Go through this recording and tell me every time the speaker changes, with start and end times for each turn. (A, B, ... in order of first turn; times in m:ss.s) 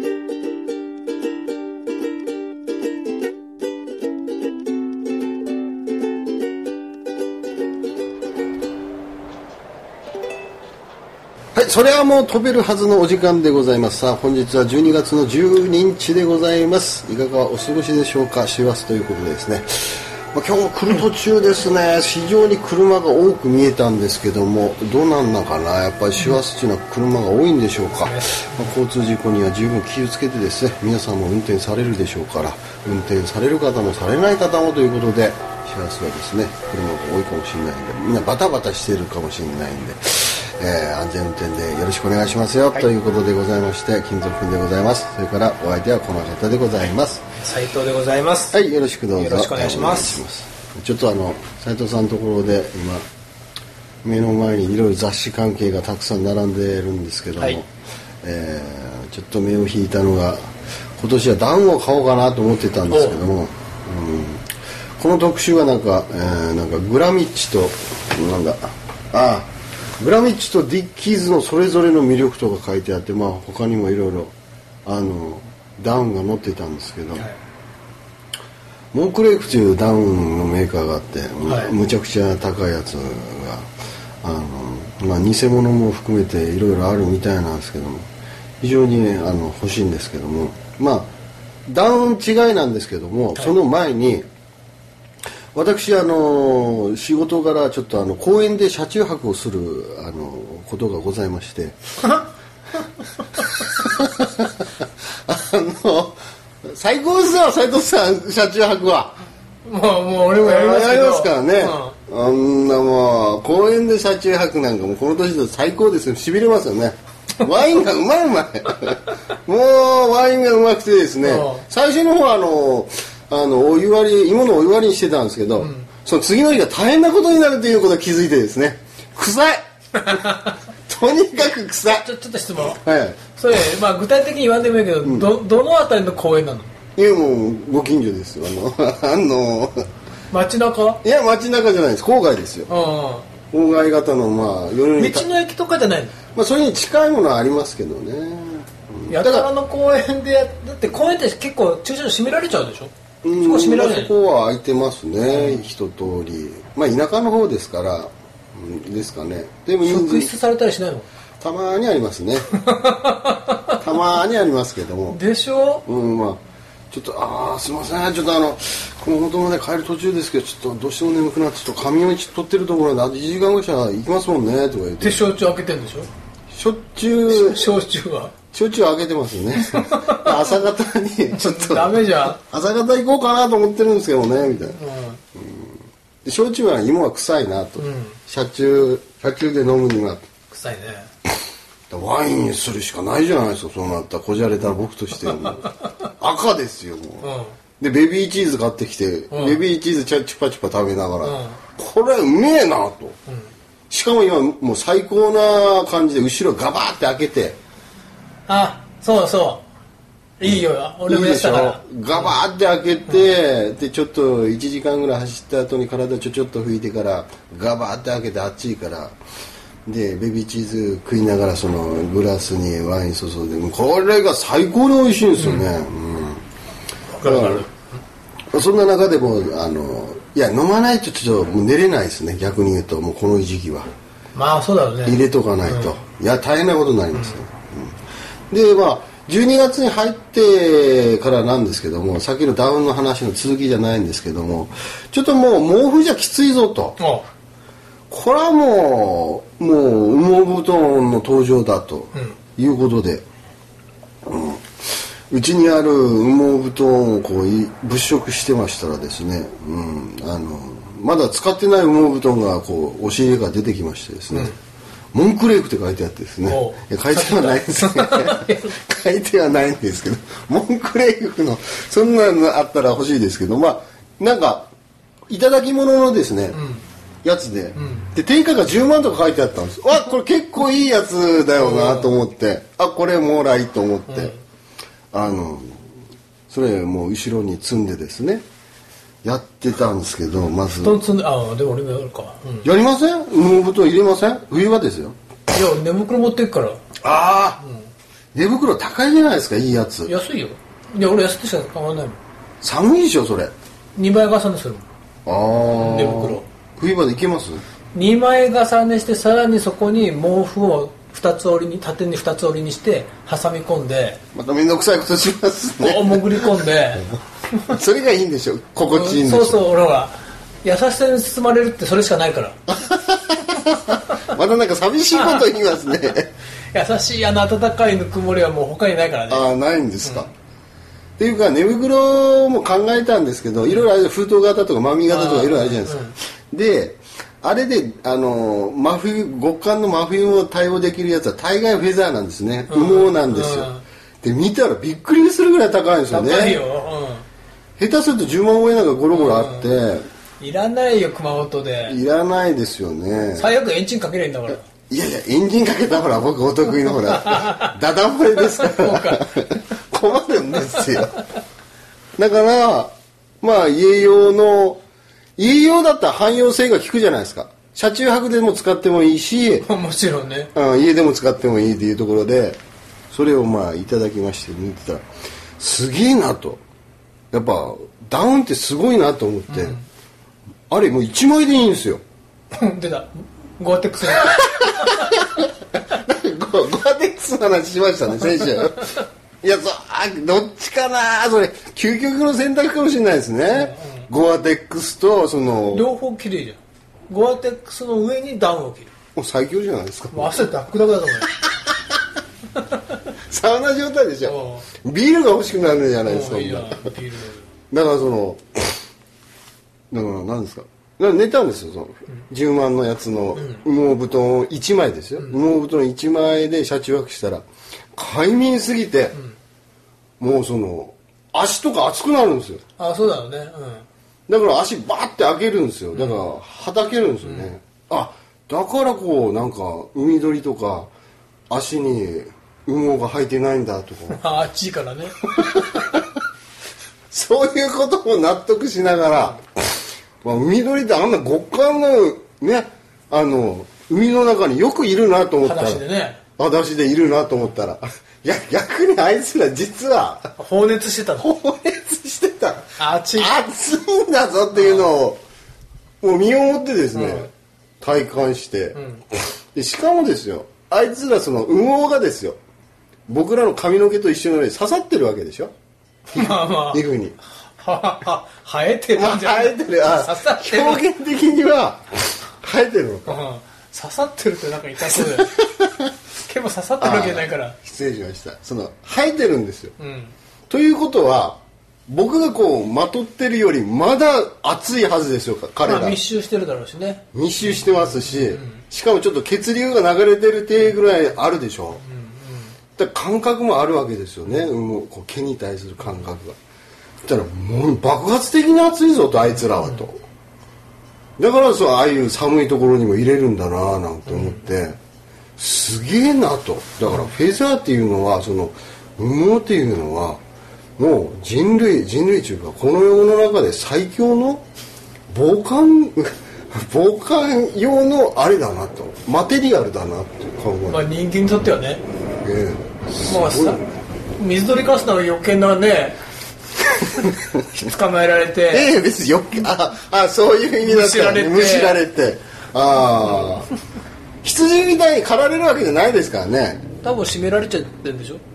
0:11.5-0:47.2 A
0:28.0-0:28.7 B
0:47.4-0:48.6 B
0:48.5-0:53.0 A
0:49.1-0:50.2 B
0:54.0-0:57.7 A
0:58.2-1:04.4 A
1:02.9-1:03.2 B
1:05.0-1:14.3 A
1:14.8-1:17.3 A
1:18.9-1:23.7 A
1:21.4-1:21.7 B
1:24.2-1:28.1 A
1:28.6-1:31.1 A
1:31.7-1:34.2 A
1:35.5-1:41.8 A
1:43.4-1:49.2 A
1:49.6-1:51.9 B
1:50.3-2:13.3 A
2:01.2-2:01.6 B
2:05.6-2:05.9 B
2:10.0-2:10.5 B
2:11.8-2:12.8 B
2:13.3-2:16.7 B
2:15.0-2:15.3 A
2:17.0-2:19.8 A
2:20.3-2:21.0 B
2:21.0-2:22.7 A
2:22.7-2:23.3 B
2:23.5-2:25.3 A
2:25.0-2:26.2 B
2:26.3-2:29.5 A
2:29.1-2:34.1 B
2:33.2-2:40.3 A
2:35.3-2:35.6 B
2:39.8-2:41.1 B
2:41.4-2:42.5 A
2:42.6-2:43.8 B
2:43.8-2:45.2 A
2:45.1-2:45.8 B
2:45.8-2:55.2 A
2:55.0-2:56.1 B
2:56.5-2:57.7 A
2:57.3-2:58.3 B
2:58.5-3:04.8 A
2:59.6-3:00.3 B
3:01.3-3:02.4 B
3:04.6-3:05.2 B
3:05.3-3:10.2 A
3:07.8-3:08.2 B
3:10.5-3:11.1 B
3:11.9-3:23.2 A
3:17.2-3:17.6 B
3:19.3-3:19.6 B
3:21.2-3:21.6 B
3:23.9-3:27.6 A
3:28.5-3:29.6 B
3:30.4-3:32.4 B
3:30.4-3:39.2 A
3:39.8-3:46.4 A
3:45.4-3:45.7 B
3:47.1-3:47.8 B
3:47.2-3:47.7 A
3:48.5-3:53.9 A
3:54.3-3:55.9 B
3:55.0-3:58.0 A
3:57.1-3:57.4 B
3:58.5-4:07.0 A
4:07.0-4:07.2 B
4:08.1-4:13.2 A
4:14.2-4:14.7 A
4:15.3-4:24.6 A
4:24.3-4:24.6 B
4:25.1-4:34.7 A
4:26.4-4:28.7 B
4:35.3-4:36.6 A
4:36.5-4:36.8 B
4:37.2-4:44.3 A
4:37.7-4:38.1 B
4:41.5-4:42.2 B
4:44.1-4:44.4 B
4:45.1-4:45.8 A
4:46.5-4:48.4 A
4:49.2-4:51.0 A
4:50.8-4:52.7 B
4:52.6-4:55.2 A
4:55.5-4:56.8 B
4:57.0-4:57.6 A
4:57.6-4:57.9 B
4:58.3-5:00.1 A
5:00.0-5:02.2 B
5:02.6-5:03.5 A
5:04.0-5:04.8 B
5:05.2-5:07.6 A
5:05.8-5:06.4 B
5:07.9-5:14.2 B
5:14.3-5:16.8 A
5:15.8-5:17.8 B
5:17.6-5:19.6 A
5:18.9-5:22.6 B
5:22.8-5:26.3 A
5:25.1-5:25.5 B
5:26.7-5:29.5 B
5:29.3-5:30.3 A
5:30.0-5:30.3 B
5:31.2-5:46.6 A
5:35.1-5:36.2 B
5:42.7-5:43.8 B
5:46.1-5:47.2 B
5:47.8-5:50.1 A
5:49.1-5:49.8 B
5:50.4-5:52.0 B
5:51.8-5:53.5 A
5:53.3-5:54.6 B
5:54.9-6:01.2 A
5:57.1-5:57.7 B
5:58.4-5:59.4 B
6:00.8-6:01.0 B
6:02.2-6:04.8 A
6:05.4-6:09.7 A
6:09.6-6:10.5 B
6:10.5-6:12.6 A
6:13.1-6:15.0 A
6:15.6-6:16.6 A
6:17.3-6:19.8 A
6:19.5-6:19.8 B
6:20.7-6:22.0 A
6:22.5-6:25.2 B
6:24.1-6:35.9 A
6:33.5-6:34.1 B
6:35.7-6:38.9 B
6:39.2-6:40.5 A
6:40.1-6:41.3 B
6:43.2-6:46.9 A
6:44.2-6:44.7 B
6:46.0-6:47.5 B
6:47.7-6:48.8 A
6:49.9-6:59.2 A
6:53.3-6:53.6 B
7:00.2-7:02.6 A
7:02.8-7:03.8 B
7:04.3-7:10.9 A
7:05.9-7:06.2 B
7:07.2-7:07.5 B
7:11.5-7:14.2 A
7:14.1-7:15.6 B
7:15.4-7:16.0 A
7:17.1-7:19.6 A
7:20.2-7:25.8 A
7:25.4-7:26.2 B
7:26.4-7:30.3 A
7:30.4-7:31.3 B
7:31.2-7:35.2 A
7:32.8-7:33.4 B
7:34.5-7:34.9 B
7:36.0-7:37.3 A
7:36.9-7:37.3 B
7:37.8-7:42.4 A
7:38.7-7:39.0 B
7:43.1-7:45.5 A
7:46.1-7:46.8 B
7:46.1-7:47.2 A
7:47.4-7:50.8 B
7:48.9-7:53.2 A
7:53.0-7:55.4 B
7:54.8-7:55.8 A
7:56.2-7:57.6 B
7:56.8-7:59.7 A
7:59.8-8:00.1 B
8:00.5-8:06.0 A
8:05.6-8:08.6 B
8:07.1-8:11.8 A
8:11.8-8:12.5 B
8:12.8-8:16.4 A
8:17.0-8:20.0 A
8:19.6-8:19.8 B
8:21.2-8:24.8 A
8:24.1-8:24.4 B
8:25.4-8:30.2 A
8:30.8-8:34.4 A
8:35.1-8:40.8 A
8:40.7-8:41.8 B
8:42.2-8:43.6 A
8:43.0-8:43.6 B
8:44.2-8:46.0 B
8:46.8-8:48.7 B
8:48.5-8:53.5 A
8:50.6-8:51.8 B
8:54.2-8:56.6 A
8:56.8-8:58.2 B